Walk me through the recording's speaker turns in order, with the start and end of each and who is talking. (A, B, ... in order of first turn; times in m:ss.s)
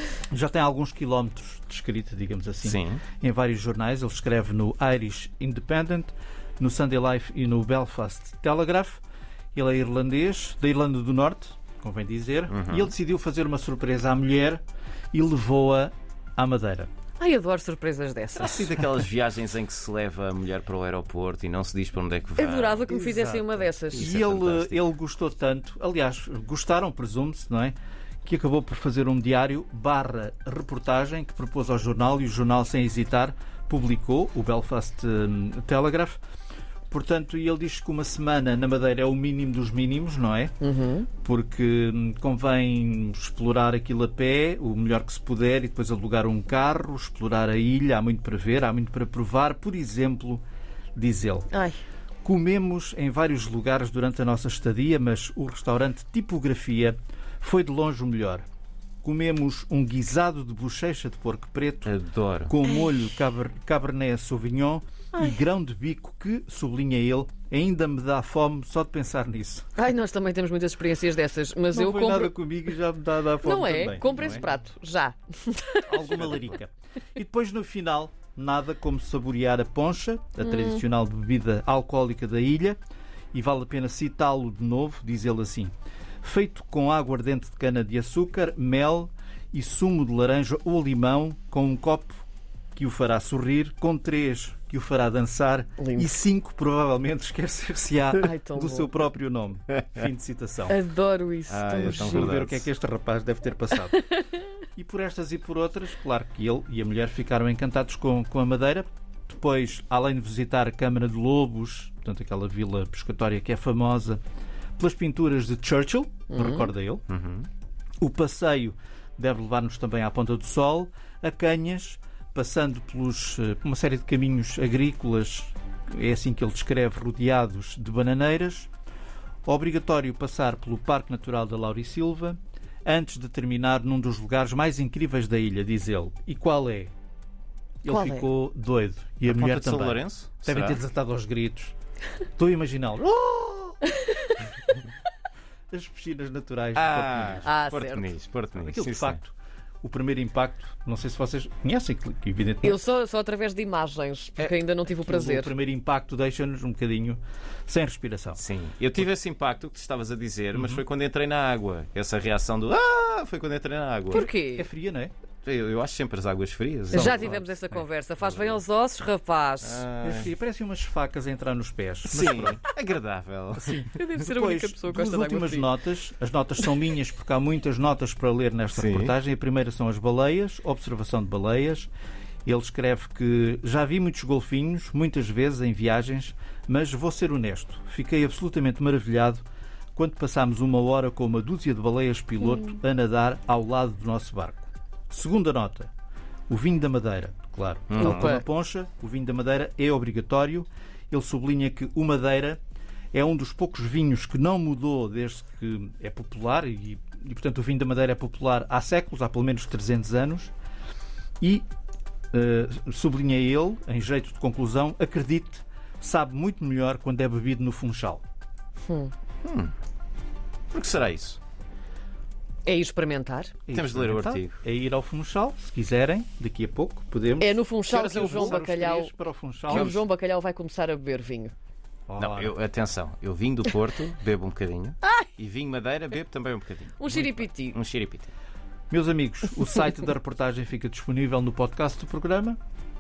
0:00.3-0:09.0 A
0:02.6-0:03.0 B
0:09.6-0:14.6 A
0:12.5-0:12.9 B
0:15.1-0:16.9 A
0:17.2-0:18.7 C
0:18.4-0:23.2 B
0:22.4-0:24.1 C
0:22.9-0:36.2 A
0:24.0-0:24.8 B
0:36.9-0:40.5 A
0:40.6-0:41.1 C
0:41.2-0:50.4 A
0:51.0-0:51.5 A
0:51.5-0:51.8 C
0:52.2-0:58.4 A
0:59.0-1:02.0 A
1:01.8-1:02.5 B
1:02.5-1:09.7 A
1:09.8-1:12.3 C
1:11.7-1:14.5 A
1:13.4-1:16.3 C
1:14.1-1:14.4 B
1:15.9-1:22.8 A
1:20.4-1:20.8 C
1:23.3-1:32.2 A
1:32.8-1:40.8 A
1:35.8-1:36.2 C
1:38.2-1:38.9 C
1:40.7-1:42.3 C
1:41.5-1:42.7 B
1:41.8-1:44.0 A
1:44.8-1:54.2 A
1:54.8-1:57.0 A
1:56.3-1:56.7 C
1:57.1-1:57.5 B
1:58.0-2:08.7 A
2:09.5-2:16.9 A
2:17.8-2:21.8 A
2:17.9-2:18.3 C
2:19.3-2:20.8 B
2:22.4-2:23.8 A
2:25.7-2:27.5 A
2:26.8-2:29.2 B
2:27.4-2:28.1 C
2:28.6-2:32.8 A
2:32.6-2:35.5 C
2:34.4-2:38.4 A
2:38.3-2:44.3 B
2:40.5-2:40.8 A
2:44.1-2:44.7 C
2:44.6-2:45.1 A
2:45.4-2:47.4 B
2:46.9-2:49.8 C
2:46.9-2:47.4 A
2:49.6-2:50.3 B
2:50.0-2:52.6 A
2:52.1-2:54.0 B
2:53.6-3:01.9 A
2:54.0-2:55.7 C
2:58.7-2:59.2 B
3:02.5-3:09.4 A
3:10.0-3:15.9 A
3:16.5-3:22.6 A
3:17.9-3:18.4 B
3:18.0-3:18.4 C
3:23.1-3:30.5 A
3:31.4-3:31.7 A
3:32.3-3:38.2 A
3:38.9-3:39.1 C
3:39.4-3:39.7 B
3:40.7-3:41.4 B
3:42.6-3:43.6 C
3:43.7-3:50.0 A
3:43.7-3:44.6 B
3:47.4-3:49.1 C
3:47.9-3:48.6 B
3:49.7-3:51.6 C
3:49.7-3:50.0 B
3:52.1-3:52.6 A
3:52.2-3:58.3 B
3:57.0-3:57.8 C
3:58.9-4:02.6 A